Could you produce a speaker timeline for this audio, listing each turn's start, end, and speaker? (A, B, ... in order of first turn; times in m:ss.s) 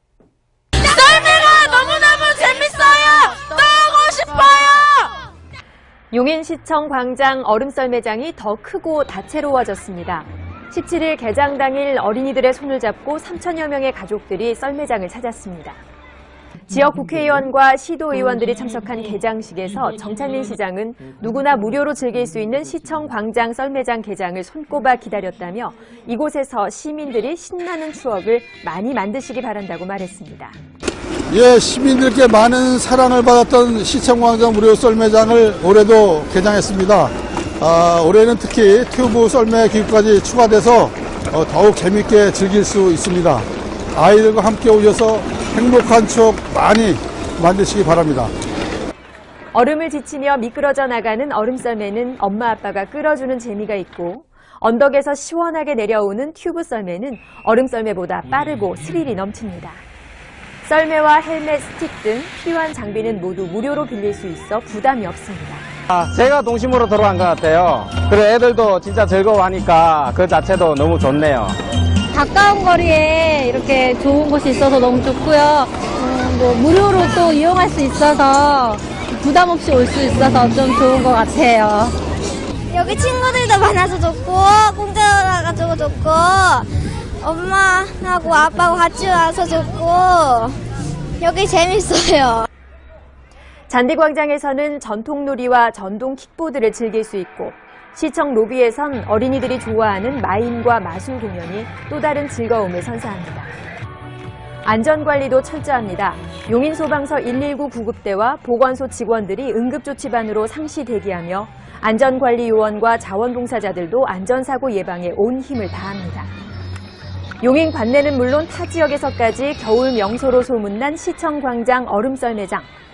0:00.8-0:05.1 A
0:06.1-0:15.8 B
0:16.7-0:30.5 B
0:31.3-0:48.3 C
0:49.5-0:59.8 B
1:00.6-1:05.6 B
1:05.9-1:11.6 D
1:12.1-1:21.9 E
1:22.7-1:26.7 A
1:27.2-1:30.6 A
1:31.2-1:32.5 A
1:33.7-1:43.5 B
1:44.6-1:56.3 B
1:57.4-2:02.7 B